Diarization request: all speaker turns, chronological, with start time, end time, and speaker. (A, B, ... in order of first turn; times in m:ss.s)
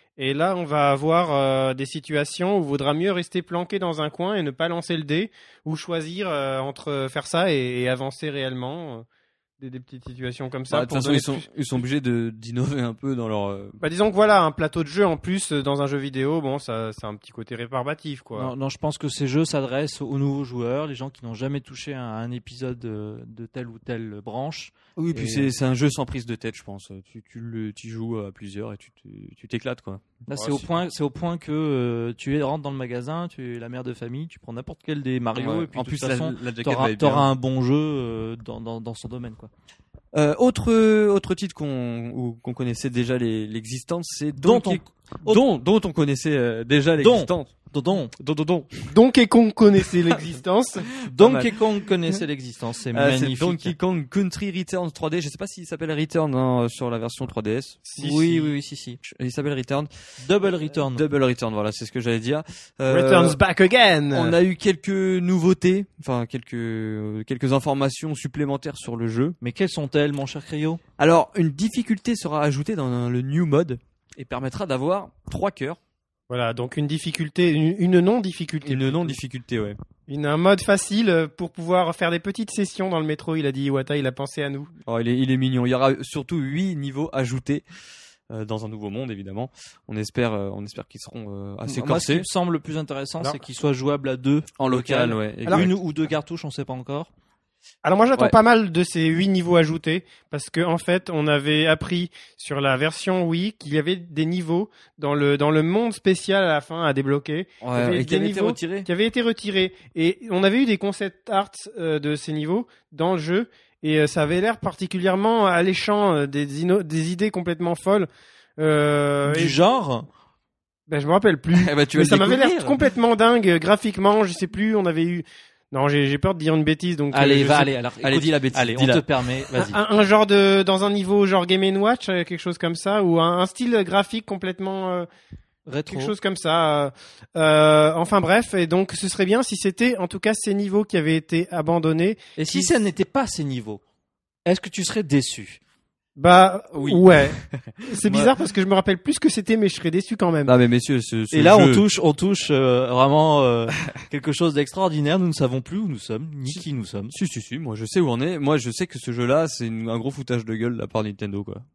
0:00.2-0:09.1 A
0:09.6-0:11.5 A
0:10.7-0:13.8 B
0:13.8-0:18.5 A
0:18.4-0:25.5 C
0:25.1-0:30.2 B
0:30.3-0:39.5 C
0:30.3-0:30.6 A
0:35.4-0:37.3 B
0:40.1-0:47.6 B
0:44.4-0:45.4 C
0:47.0-0:48.1 C
0:48.1-0:48.9 B
0:48.9-0:50.9 A
0:50.8-0:51.6 B
0:51.0-0:53.7 C
0:52.9-0:57.8 B
0:57.9-0:58.5 A
0:58.0-0:59.0 C
0:59.0-0:59.9 B
1:00.2-1:01.0 C
1:00.6-1:03.4 B
1:02.9-1:04.4 A
1:04.1-1:09.4 B
1:09.4-1:10.8 C
1:11.0-1:15.8 B
1:16.3-1:19.2 A
1:18.6-1:19.8 B
1:20.1-1:24.7 A
1:24.9-1:27.6 B
1:28.3-1:32.3 B
1:31.7-1:37.1 C
1:34.6-1:35.8 B
1:37.8-1:59.6 A
1:47.6-1:48.9 B
1:59.3-2:00.1 C
2:00.9-2:07.7 A
2:01.6-2:02.8 B
2:07.1-2:09.8 C
2:08.0-2:09.0 B
2:09.6-2:15.1 A
2:15.7-2:16.1 C
2:15.9-2:22.7 A
2:22.4-2:23.8 C
2:24.5-2:25.6 C
2:26.2-2:30.5 A
2:26.8-2:28.3 B
2:30.4-2:31.8 B
2:31.3-2:37.2 C
2:37.1-2:41.6 B